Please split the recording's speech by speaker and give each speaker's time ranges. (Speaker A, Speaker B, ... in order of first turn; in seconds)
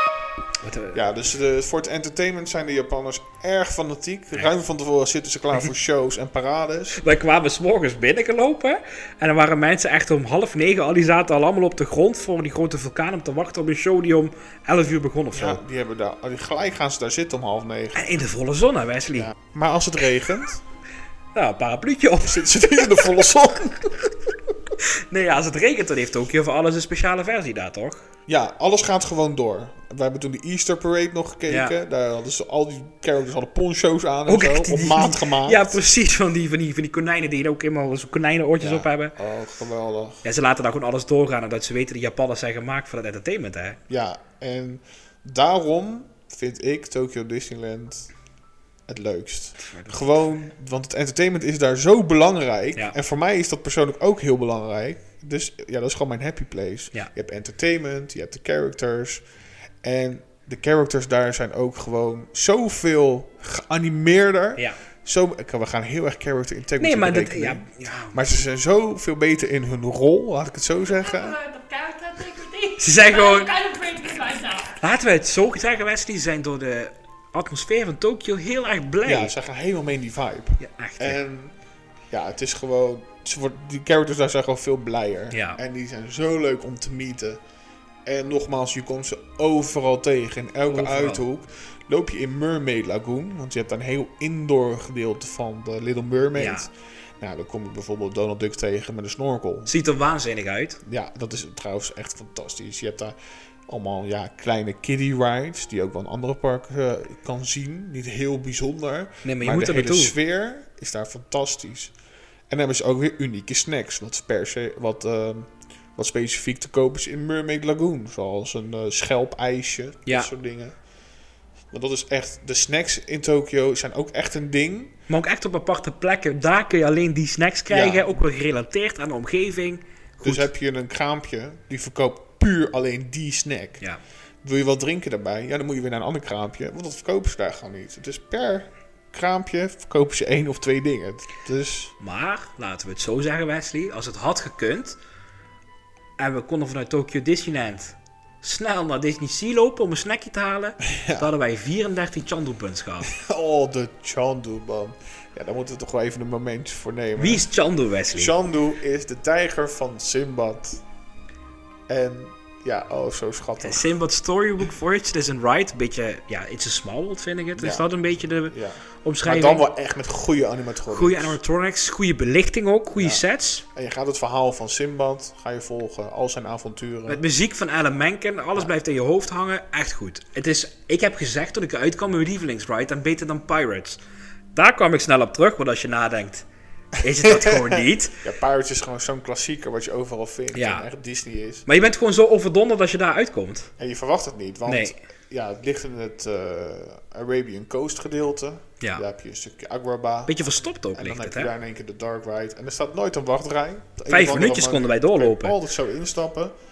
Speaker A: 0.6-1.0, 7.0-15.6, 17.9-19.3, 21.3-23.1, 25.1-28.0, 31.5-31.8, 34.3-39.2, 40.2-43.8, 49.6-50.0, 66.8-68.2, 72.8-73.6, 74.7-79.3, 80.6-81.2, 85.3-85.6, 90.7-91.2, 96.3-96.7, 99.7-100.8, 109.2-110.1, 125.1-130.5, 142.0-145.0, 146.2-153.1, 157.2-158.3, 163.6-169.6, 170.9-173.6, 177.1-184.0, 184.5-186.4, 187.0-188.2, 190.5-190.8, 191.7-193.7, 194.7-195.0, 200.3-201.5, 204.1-205.6
Speaker B: 0.9-7.0, 15.3-18.1, 19.2-20.6, 22.2-24.5, 28.3-35.8, 38.6-40.2, 43.9-48.1, 48.9-59.2, 59.8-71.4, 79.0-81.5, 82.1-87.4, 88.1-99.7, 100.8-103.2, 103.7-111.9, 112.5-120.8, 121.7-124.9, 127.7-128.1, 130.2-133.8, 134.4-141.9, 150.8-151.3, 153.0-157.5, 158.1-160.8, 161.9-163.8, 167.6-167.9, 168.5-171.4, 173.0-177.2, 187.2-191.7, 193.8-206.5
Speaker C: 70.9-74.8